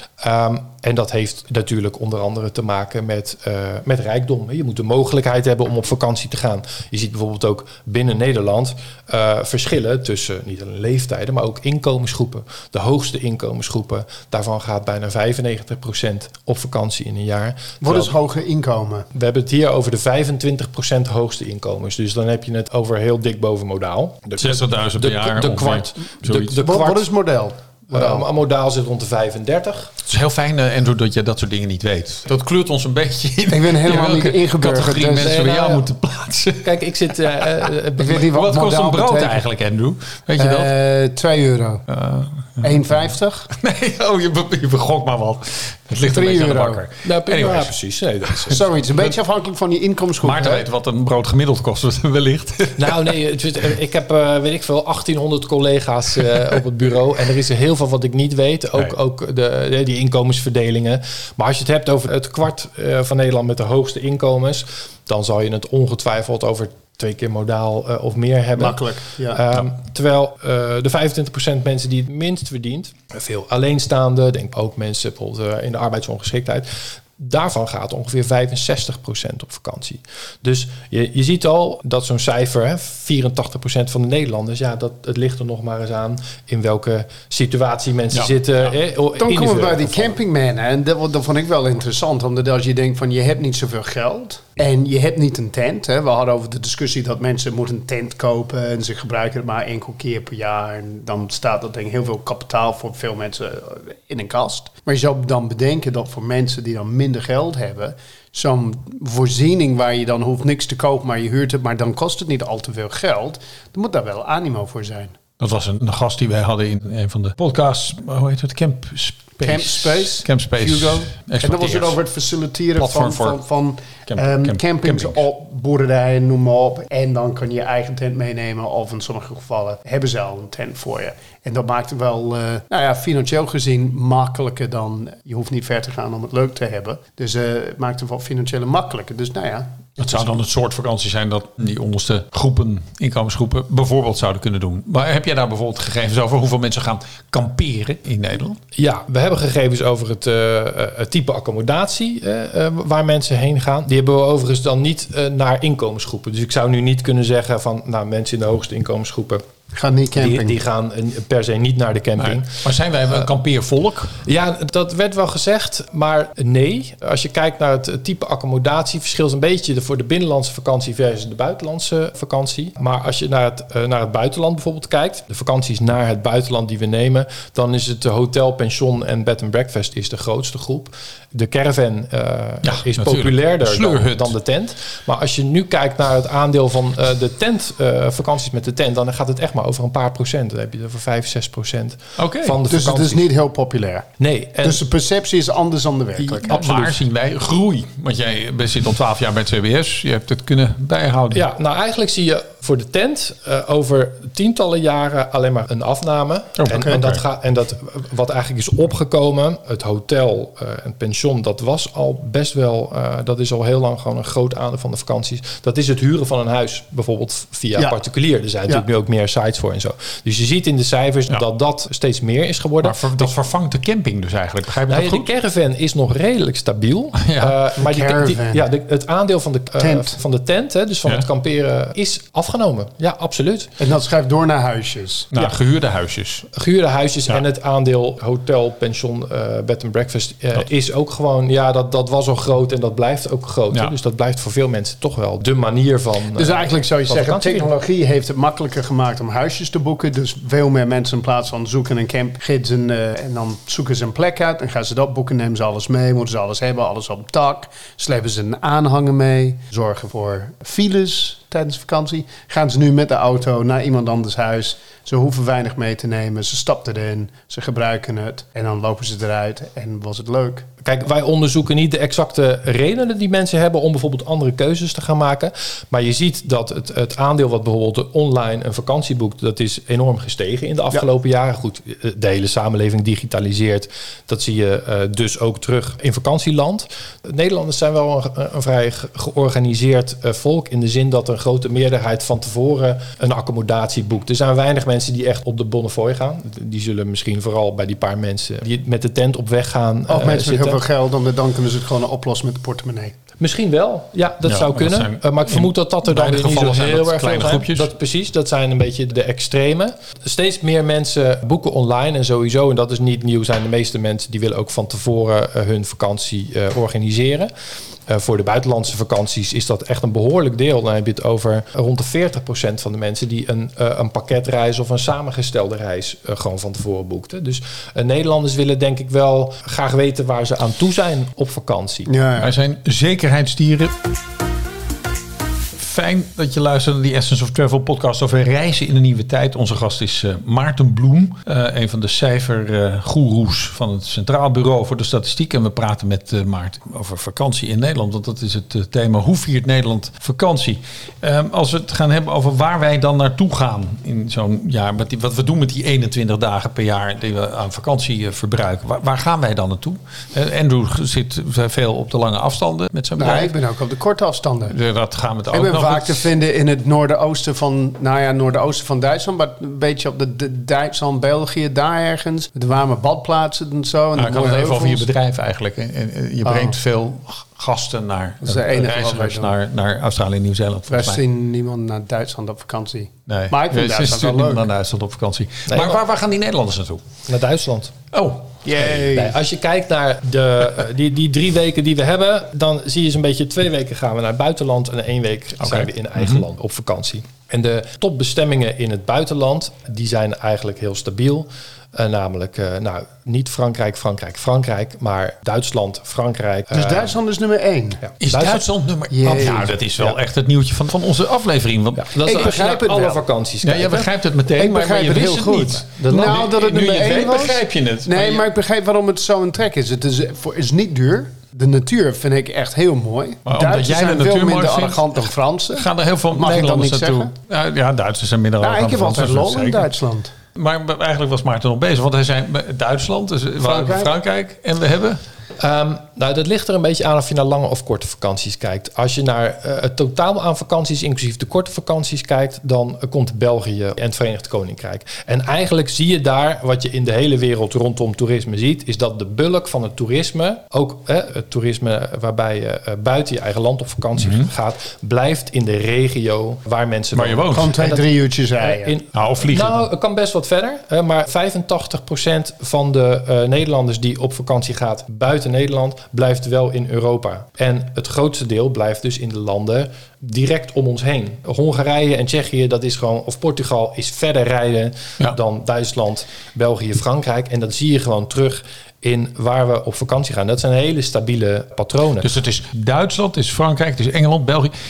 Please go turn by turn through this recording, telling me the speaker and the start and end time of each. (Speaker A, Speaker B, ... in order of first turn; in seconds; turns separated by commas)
Speaker A: 0.2-18.1, Speaker B: 17.8-19.1, Speaker A: 19.1-27.1, Speaker C: 24.4-26.6, Speaker B: 26.6-28.2, Speaker A: 27.9-29.9, Speaker C: 30.0-36.8, Speaker B: 33.5-35.4, Speaker A: 35.2-35.8, Speaker A: 36.6-38.3, Speaker C: 37.4-40.7, Speaker B: 38.0-39.4, Speaker B: 40.4-41.8, Speaker C: 41.9-42.8, Speaker B: 42.6-43.5, Speaker C: 43.5-49.1, Speaker B: 46.1-46.8, Speaker A: 47.0-48.6, Speaker B: 48.5-50.6, Speaker C: 50.2-53.1, Speaker A: 52.8-90.2, Speaker B: 68.6-69.4, Speaker B: 89.2-115.1, Speaker C: 115.4-122.0, Speaker B: 119.4-140.0, Speaker C: 122.8-123.4, Speaker C: 124.0-125.2, Speaker C: 140.0-148.6, Speaker A: 148.7-159.4, Speaker B: 159.7-160.6, Speaker A: 160.2-162.6, Speaker C: 162.2-164.2, Speaker A: 164.2-193.3, Speaker C: 182.6-184.3, Speaker C: 192.2-192.6, Speaker B: 192.7-194.1, Speaker A: 194.2-194.8, Speaker B: 194.6-196.6, Speaker A: 196.2-197.0, Speaker C: 196.5-201.4, Speaker A: 201.3-223.3, Speaker C: 206.6-207.2, Speaker B: 206.7-206.9, Speaker C: 222.8-225.3, Speaker A: 224.9-233.7, Speaker C: 227.2-227.6, Speaker B: 227.8-228.6, Speaker B: 229.8-230.2, Speaker B: 233.8-235.3, Speaker C: 235.3-236.5, Speaker A: 236.5-247.7, Speaker B: 246.3-270.7, Speaker A: 270.8-300.8, Speaker B: 300.1-303.1, Speaker A: 303.4-317.5, Speaker C: 304.4-307.9, Speaker A: 318.1-332.1, Speaker B: 332.1-332.5, Speaker C: 332.4-333.9, Speaker C: 335.7-363.5, Speaker B: 363.2-364.7, Speaker C: 364.7-366.3, Speaker B: 365.5-375.1, Speaker C: 374.1-381.2, Speaker B: 376.4-376.8, Speaker B: 378.4-379.5, Speaker B: 380.9-384.6, Speaker C: 383.3-387.0, Speaker A: 385.7-386.0, Speaker A: 387.3-387.9, Speaker C: 388.1-388.9, Speaker B: 388.6-389.3, Speaker A: 389.0-407.1, Speaker C: 395.6-396.4, Speaker B: 406.7-408.0, Speaker A: 408.0-408.6, Speaker C: 408.2-412.1, Speaker B: 409.1-409.8, Speaker A: 411.9-414.1, Speaker B: 412.2-413.2, Speaker C: 413.6-418.4, Speaker B: 414.6-427.3, Speaker A: 414.6-416.4, Speaker C: 423.4-425.2, Speaker C: 425.7-429.9, Speaker B: 428.6-430.3, Speaker C: 430.5-435.2, Speaker B: 433.6-434.1, Speaker A: 435.6-458.1, Speaker C: 454.2-454.5, Speaker C: 457.1-457.8, Speaker B: 457.5-458.9, Speaker A: 458.6-482.3, Speaker C: 459.1-459.8, Speaker C: 482.2-484.7